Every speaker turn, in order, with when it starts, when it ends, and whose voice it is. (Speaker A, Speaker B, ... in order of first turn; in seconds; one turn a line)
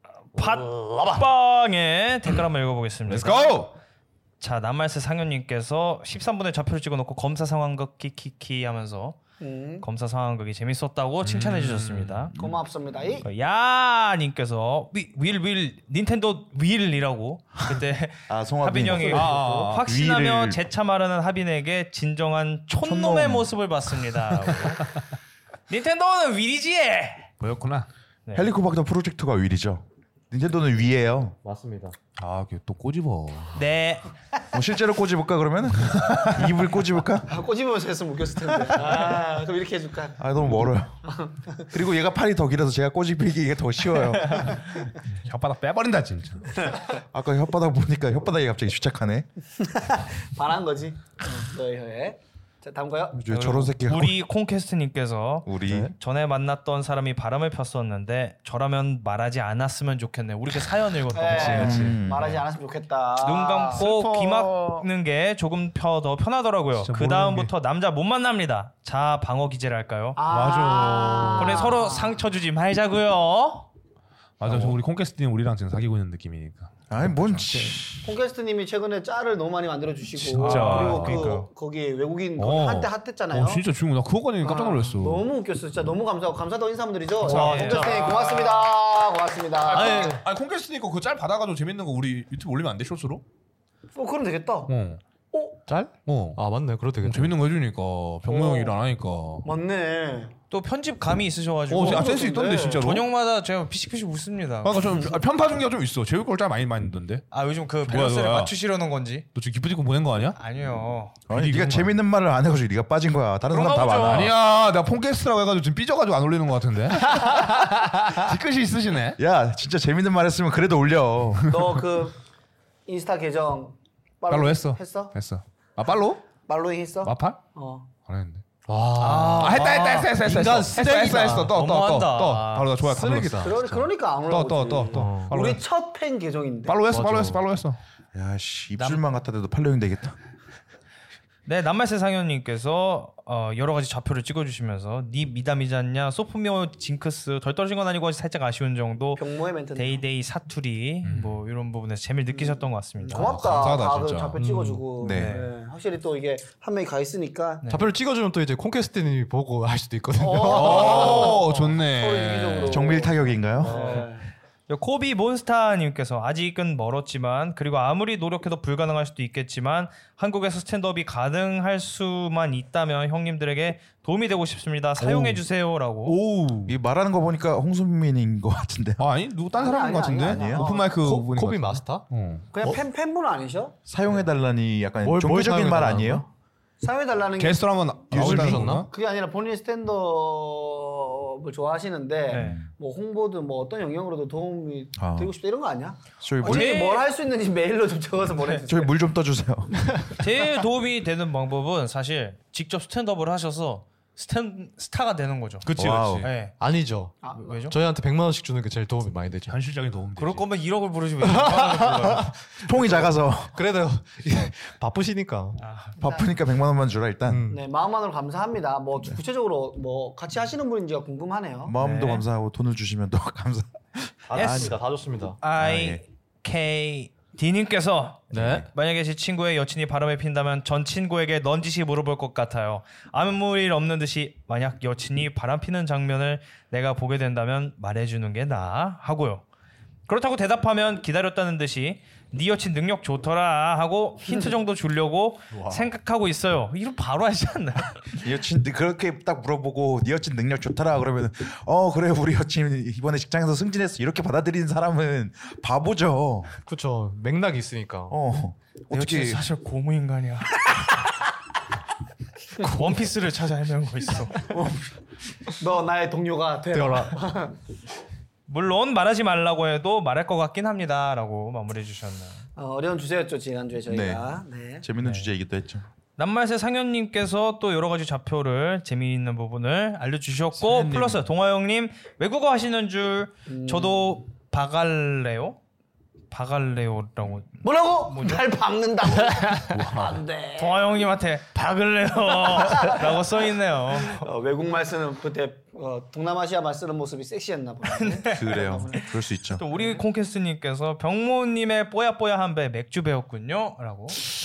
Speaker A: 0.3-3.6
Speaker B: 3.1-3.7
Speaker A: 4.4-9.2
Speaker C: 9.4-9.8
Speaker A: 9.8-12.3
Speaker B: 11.2-12.3
Speaker C: 12.3-13.2
Speaker A: 13.2-25.0
Speaker D: 18.3-20.6
Speaker C: 18.9-19.7
Speaker B: 19.1-19.8
Speaker D: 22.8-23.5
Speaker A: 25.7-27.3
Speaker B: 27.4-27.9
Speaker D: 28.3-31.4
Speaker E: 31.4-31.9
Speaker B: 32.1-33.6
Speaker A: 33.5-34.1
Speaker D: 34.5-37.3
Speaker C: 37.3-40.3
Speaker D: 40.2-41.0
Speaker C: 41.0-41.6
Speaker D: 41.6-44.6
Speaker B: 45.1-46.6
Speaker C: 46.6-46.9
Speaker D: 46.8-49.3
Speaker C: 49.6-53.2
Speaker D: 53.1-54.2
Speaker A: 53.3-61.9
Speaker D: 55.5-55.9
Speaker E: 55.7-55.9
Speaker C: 61.1-63.9
Speaker E: 61.3-61.9
Speaker D: 61.5-62.4
Speaker A: 63.2-70.2
Speaker B: 63.8-64.8
Speaker B: 66.8-67.5
Speaker C: 70.2-72.2
Speaker B: 70.3-71.7
Speaker A: 71.3-73.7
Speaker B: 74.4-78.0
Speaker D: 76.9-77.9
Speaker C: 78.0-83.6
Speaker B: 80.1-81.3
Speaker A: 80.4-81.5
Speaker B: 82.4-85.3
Speaker C: 84.4-90.1
Speaker A: 87.2-88.6
Speaker E: 87.2-88.2
Speaker B: 89.7-93.2
Speaker E: 89.7-90.2
Speaker C: 93.9-94.7
Speaker B: 94.7-95.0
Speaker C: 95.3-95.6
Speaker E: 95.7-97.4
Speaker B: 96.0-96.4
Speaker B: 97.0-99.5
Speaker C: 98.2-98.7
Speaker C: 99.4-100.3
Speaker A: 100.5-102.2
Speaker B: 101.7-103.1
Speaker C: 101.7-102.9
Speaker A: 102.8-104.9
Speaker B: 104.6-107.2
Speaker C: 104.8-105.2
Speaker A: 107.3-109.3
Speaker B: 107.8-108.5
Speaker B: 109.3-110.4
Speaker A: 110.3-111.2
Speaker B: 111.3-112.0
Speaker D: 111.3-114.4
Speaker E: 113.5-114.3
Speaker B: 114.1-119.2
Speaker E: 117.1-117.8
Speaker D: 119.2-121.5
Speaker C: 121.5-122.2
Speaker C: 122.8-125.1
Speaker B: 124.3-126.2
Speaker C: 126.5-127.9
Speaker B: 127.0-127.4
Speaker B: 128.0-128.4
Speaker E: 128.7-131.6
Speaker A: 129.0-130.1
Speaker B: 129.4-135.6
Speaker A: 131.5-132.7
Speaker E: 132.5-133.8
Speaker C: 133.1-136.8
Speaker E: 134.9-135.3
Speaker B: 136.7-137.8
Speaker E: 136.9-137.4
Speaker D: 138.1-140.2
Speaker A: 138.8-139.0
Speaker A: 141.4-153.6
Speaker C: 149.2-150.0
Speaker B: 151.0-151.4
Speaker C: 152.3-157.6
Speaker B: 153.1-154.4
Speaker E: 154.4-154.8
Speaker D: 155.0-155.3
Speaker A: 155.1-155.5
Speaker A: 157.6-157.9
Speaker E: 157.7-161.4
Speaker C: 160.2-164.3
Speaker B: 160.5-162.9
Speaker D: 162.7-163.8
Speaker A: 163.6-164.1
Speaker A: 164.7-176.2
Speaker B: 175.0-175.4
Speaker B: 176.1-176.7
Speaker D: 176.7-179.1
Speaker B: 179.0-182.5
Speaker C: 179.5-181.0
Speaker D: 180.3-180.7
Speaker E: 180.9-182.1
Speaker C: 182.5-183.8
Speaker D: 183.9-186.3
Speaker E: 185.0-186.2
Speaker C: 186.8-198.9
Speaker B: 187.4-188.9
Speaker D: 188.1-188.7
Speaker E: 188.1-188.9
Speaker A: 192.3-192.6
Speaker D: 192.3-192.6
Speaker D: 195.0-195.3
Speaker D: 196.2-196.8
Speaker A: 196.4-197.0
Speaker D: 198.7-200.1
Speaker A: 200.2-206.5
Speaker B: 205.6-206.3
Speaker D: 205.8-206.3
Speaker E: 206.6-209.6
Speaker C: 207.2-207.6
Speaker A: 207.3-207.8
Speaker B: 209.5-210.4
Speaker A: 210.2-212.3
Speaker E: 211.2-215.6
Speaker D: 212.7-213.5
Speaker A: 215.6-216.0
Speaker D: 216.0-217.5
Speaker E: 217.2-217.6
Speaker C: 217.5-221.7
Speaker D: 221.6-224.8
Speaker A: 221.8-222.2
Speaker E: 224.3-225.4
Speaker A: 224.3-224.8
Speaker A: 225.4-239.4
Speaker D: 225.6-226.0
Speaker D: 228.3-228.7
Speaker E: 228.3-228.7
Speaker A: 240.1-248.2
Speaker D: 248.2-256.5
Speaker E: 256.6-258.1
Speaker D: 258.1-259.4
Speaker A: 258.9-261.0
Speaker A: 262.6-264.5
Speaker D: 264.5-264.9
Speaker C: 265.5-267.6
Speaker E: 266.7-267.2
Speaker A: 268.5-272.4
Speaker C: 272.6-274.9
Speaker D: 273.9-275.9
Speaker A: 275.0-275.3
Speaker A: 276.2-285.6
Speaker B: 280.6-281.2
Speaker C: 283.5-284.1
Speaker A: 286.3-288.4
Speaker C: 287.6-290.8
Speaker B: 289.7-290.2
Speaker A: 290.6-294.3
Speaker C: 292.4-293.1
Speaker C: 294.0-299.0
Speaker A: 297.9-304.2
Speaker D: 298.3-299.6
Speaker C: 299.7-300.0